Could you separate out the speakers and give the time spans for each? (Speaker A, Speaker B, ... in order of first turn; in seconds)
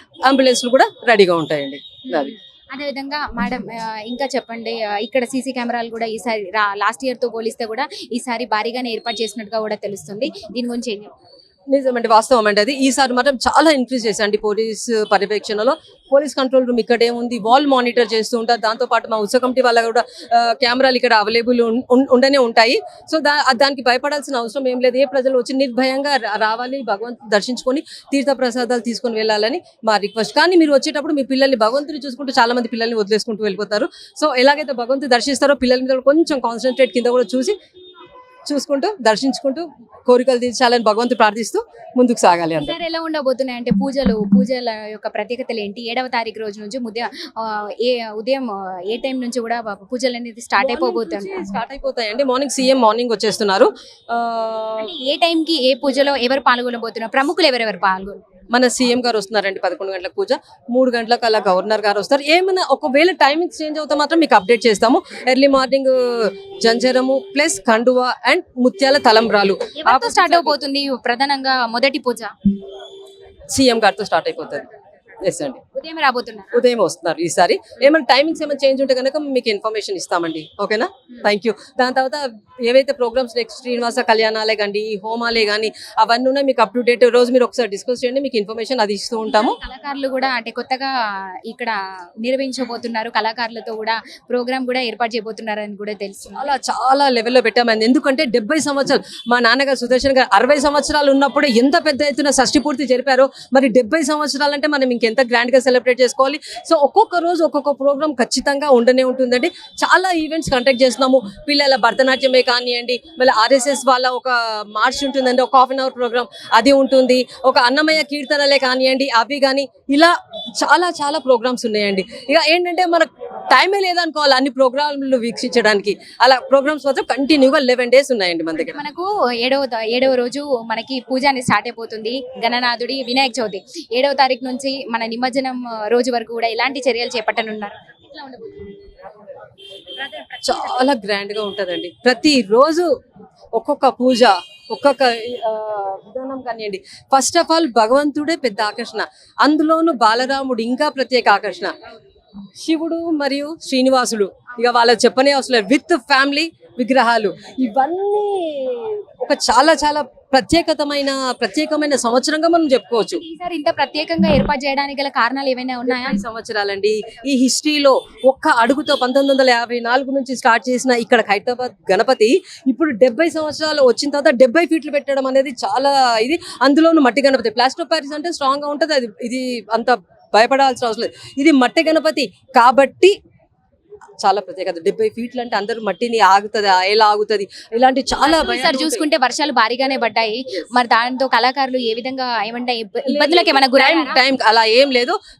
Speaker A: 0.2-2.3, 11.7-37.5, 38.5-42.8, 50.6-54.9, 58.5-70.6, 73.5-74.7, 75.2-75.6, 76.5-89.6, 96.4-128.8, 140.4-142.9, 143.5-151.7, 152.6-163.2, 165.9-183.1, 184.2-189.0, 193.1-195.2
Speaker B: 2.0-11.1, 42.6-51.4, 54.8-58.2, 69.8-72.3, 75.7-76.6, 89.2-90.9, 91.5-96.5, 128.5-138.8, 140.0-140.9, 163.1-166.2, 188.2-194.2